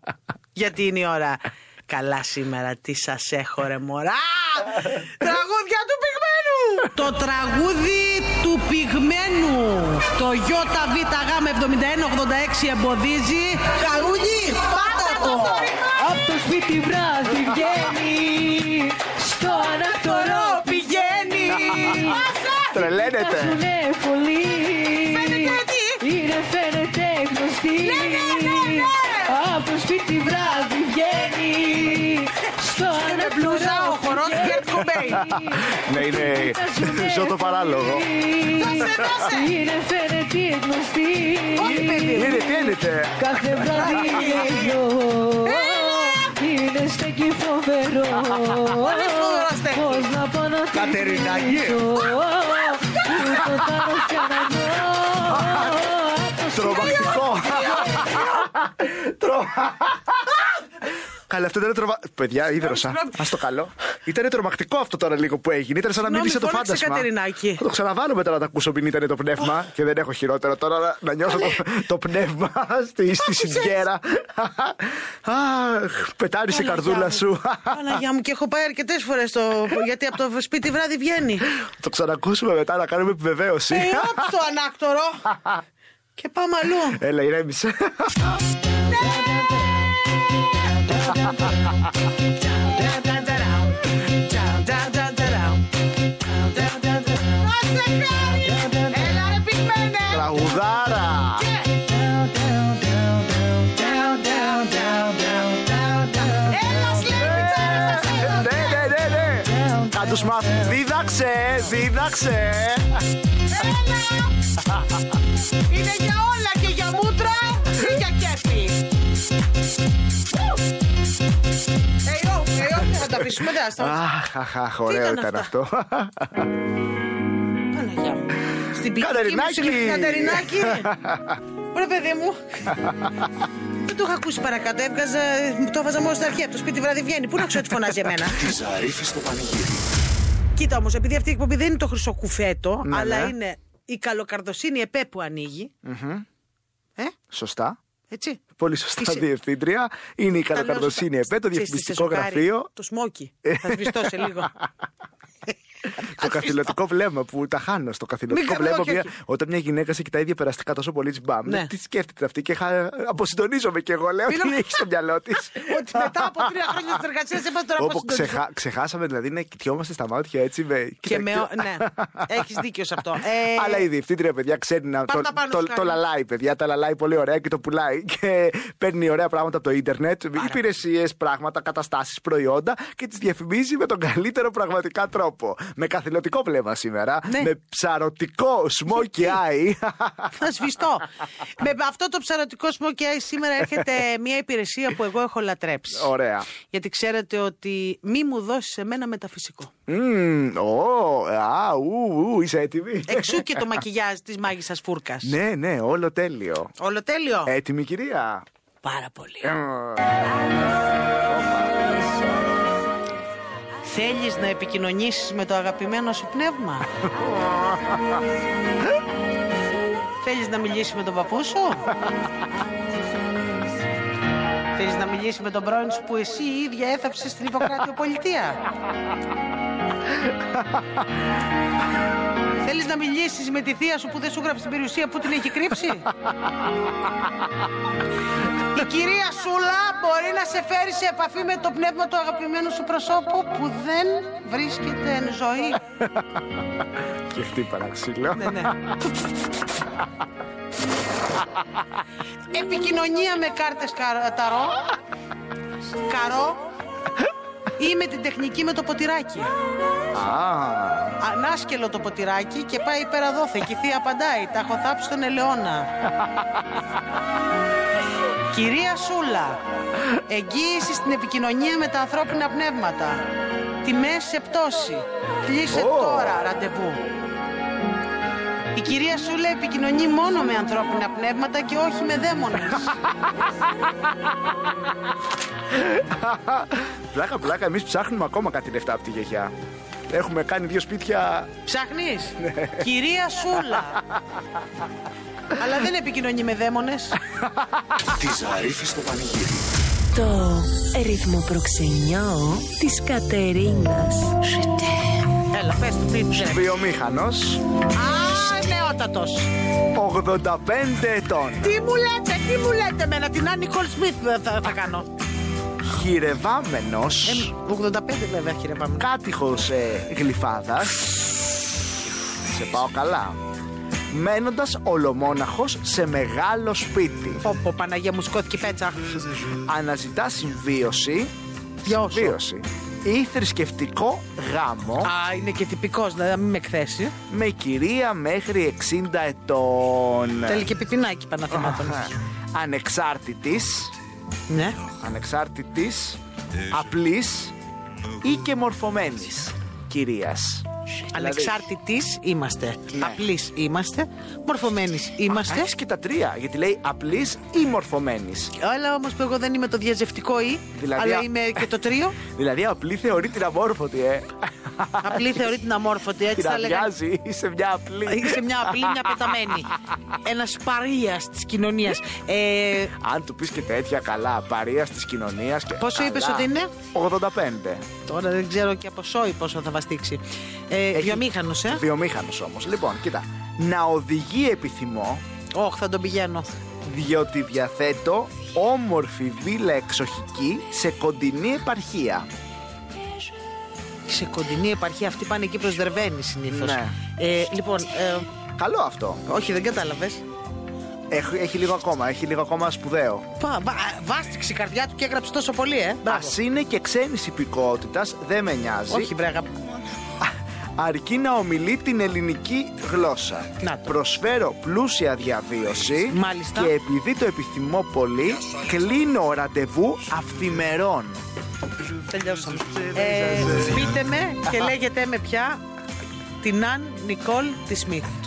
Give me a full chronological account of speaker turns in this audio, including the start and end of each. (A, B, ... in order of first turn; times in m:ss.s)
0:00.5-0:16.0 A
0:15.9-0:22.3 B
0:19.9-0:22.8 A
0:22.7-0:23.6 C
0:22.8-0:57.2 B
0:25.1-0:26.0 A
0:27.8-0:29.4 A
0:32.9-0:35.3 A
0:35.2-0:38.0 C
0:38.6-0:39.5 A
0:41.5-0:42.5 A
0:41.6-0:44.2 C
0:43.7-0:44.8 A
0:45.4-0:46.3 A
0:48.7-0:50.1 A
0:50.7-0:52.0 C
0:53.2-0:53.4 C
0:55.3-0:55.7 C
0:56.5-1:00.6 C
0:56.7-0:58.3 A
1:01.3-1:18.0 C
1:02.6-1:03.2 A
1:06.0-1:07.6 A
1:13.2-1:13.8 A
1:16.5-1:21.5 A
1:21.6-1:24.3 C
1:23.7-1:25.2 A
1:25.3-1:25.6 C
1:26.2-1:27.0 A
1:27.0-1:28.4 C
1:28.8-1:29.9 A
1:30.4-1:31.7 A
1:32.4-1:35.6 A
1:36.3-1:40.4 A
1:40.1-1:41.5 C
1:41.4-1:41.9 A
1:43.5-1:48.9 A
1:47.1-1:53.0 C
1:53.5-1:54.3 A
1:55.7-1:58.8 A
2:02.0-2:04.0 A
2:03.8-2:06.5 C
2:04.9-2:05.5 A
2:07.7-2:10.9 A
2:09.0-2:11.4 C
2:11.7-2:12.6 A
2:12.7-2:13.1 C
2:13.8-2:18.5 A
2:18.2-2:19.9 D
2:20.6-2:25.7 A
2:22.8-2:23.3 C
2:25.8-2:26.2 C
2:27.3-2:27.8 C
2:28.1-2:28.4 A
2:28.5-2:32.7 C
2:29.0-2:29.2 A
2:30.5-2:34.5 A
2:33.4-2:34.4 C
2:36.0-2:36.6 A
2:36.0-2:46.9 C
2:38.3-2:39.1 A
2:41.4-2:41.7 A
2:44.3-2:44.7 A
2:45.5-2:48.4 A
2:47.8-2:52.4 C
2:51.0-2:53.9 A
2:53.4-3:10.4 C
2:55.1-2:56.0 A
3:10.4-3:19.7 A
3:15.9-3:16.5 C
3:19.9-3:23.7 C
3:23.1-3:25.3 A
3:25.2-3:26.7 C
3:26.8-3:27.5 A
3:27.4-3:28.4 C
3:28.8-3:29.6 A
3:29.4-3:30.2 C
3:31.2-3:31.9 C
3:33.8-3:36.9 A
3:37.1-3:38.2 C
3:40.2-3:41.9 A
3:44.8-3:48.6 A
3:50.2-3:50.8 C
3:52.6-3:56.1 A
3:58.7-4:05.8 A
4:06.0-4:06.6 C
4:07.3-4:09.0 C
4:08.4-4:08.7 A
4:12.5-4:14.8 A
4:16.1-4:16.6 A
4:17.8-4:19.5 A
4:20.1-4:21.2 C
4:21.2-4:25.9 A
4:28.5-4:29.6 A
4:30.3-4:33.2 A
4:33.8-4:37.0 A
4:35.7-4:36.4 C
4:38.7-4:42.9 A
4:45.7-4:49.5 C
4:50.1-4:51.6 C
4:51.6-4:54.0 A
4:52.4-4:52.9 C
4:53.8-4:54.4 C
4:55.6-4:57.2 A
4:57.4-4:57.8 C
4:58.0-4:59.7 D
5:00.1-5:05.1 E
5:05.5-5:06.8 A
5:06.3-5:07.6 C
5:07.9-5:09.5 A
5:09.9-5:11.8 C
5:11.6-5:15.1 A
5:15.8-5:17.5 C
5:17.2-5:19.1 A
5:19.0-5:21.2 C
5:22.4-5:23.4 C
5:24.1-5:27.4 C
5:27.4-5:29.1 A
5:29.6-5:31.3 C
5:31.8-5:35.1 C
5:31.8-5:32.4 A
5:35.0-5:37.1 A
5:37.3-5:40.7 C
5:40.5-5:42.1 A
5:41.5-5:43.9 C
5:44.5-5:44.8 A
5:44.9-5:47.5 C
5:48.2-5:51.6 C
5:51.1-5:55.7 A
5:52.9-5:53.2 C
5:55.4-5:58.5 C
5:58.6-6:02.2 A
6:00.7-6:01.3 C
6:02.3-6:05.4 C
6:05.0-6:06.9 A
6:06.3-6:09.3 C
6:08.1-6:09.7 A
6:10.2-6:12.9 A
6:12.9-6:17.9 C
6:15.8-6:16.7 A
6:18.0-6:21.8 A
6:20.9-6:25.2 C
6:25.5-6:26.6 A
6:26.8-6:32.3 C
6:34.1-6:38.3 A
6:36.5-6:37.0 C
6:38.6-6:39.2 C
6:39.3-6:40.2 A
6:41.1-6:43.3 C
6:43.4-6:46.4 A
6:46.0-6:49.1 C
6:48.9-6:49.6 A
6:50.2-7:01.2 C
6:53.6-6:53.9 A
6:56.1-6:56.7 A
7:02.1-7:05.6 A
7:03.0-7:03.7 C
7:06.4-7:08.1 A